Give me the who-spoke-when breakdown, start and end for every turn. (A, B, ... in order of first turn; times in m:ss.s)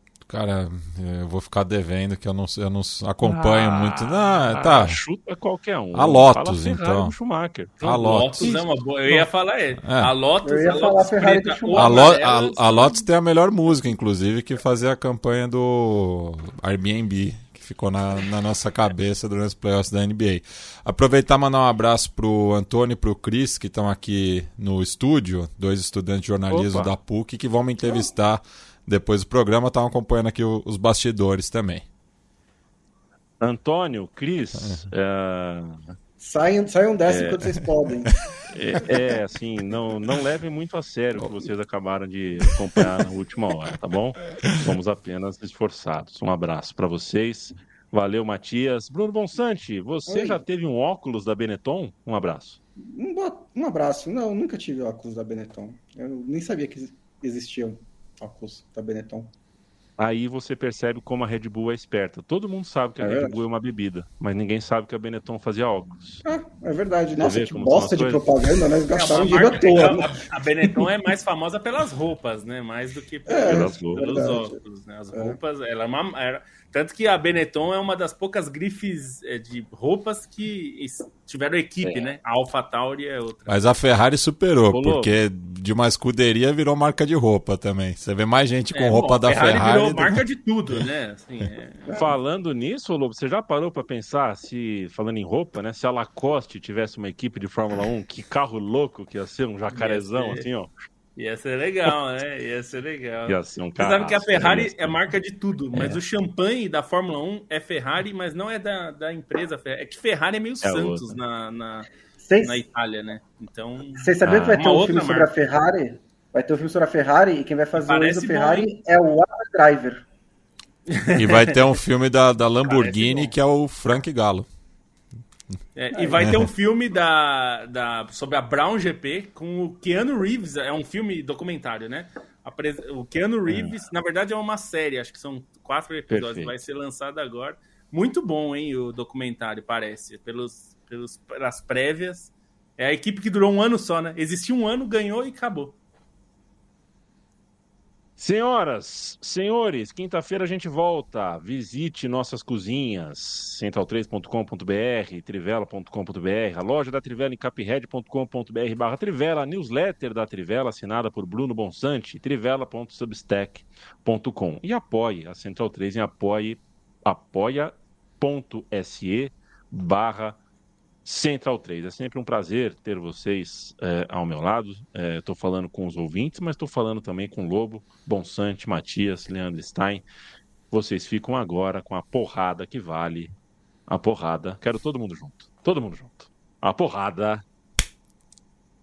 0:00.2-0:05.0 A
0:03.2-0:08.6 B
0:05.9-0:07.1 A
0:07.8-0:09.2 A
0:08.0-0:13.0 C
0:09.8-0:10.1 A
0:10.4-0:12.2 D
0:11.7-0:31.8 A
0:26.5-0:26.9 B
0:33.4-0:35.8 B
0:36.2-0:38.1 D
0:37.1-0:37.4 B
0:38.5-0:52.6 B
0:50.1-0:50.4 D
0:52.9-0:59.3 D
1:00.0-1:06.2 B
1:03.0-1:03.3 D
1:06.2-1:10.9 D
1:07.2-1:08.3 B
1:08.9-1:23.7 C
1:13.3-1:14.6 D
1:13.4-1:14.3 B
1:23.5-1:30.2 A
1:24.7-1:25.1 B
1:28.7-1:32.0 C
1:31.9-1:40.7 B
1:39.7-1:40.4 C
1:41.2-1:51.9 C
1:43.2-1:45.0 B
1:45.7-1:46.0 B
1:50.6-1:51.2 B
1:52.2-1:52.6 D
1:52.4-1:55.3 C
1:54.0-2:00.0 D
1:54.2-1:54.6 B
1:57.8-1:58.7 C
2:00.9-2:01.6 C
2:01.1-2:04.5 A
2:02.6-2:03.3 C
2:05.8-2:25.8 C
2:05.9-2:06.3 D
2:13.5-2:13.7 B
2:16.1-2:16.5 B
2:28.2-2:50.4 B
2:51.0-3:00.0 B
3:00.7-3:03.3 B
3:03.9-3:07.4 B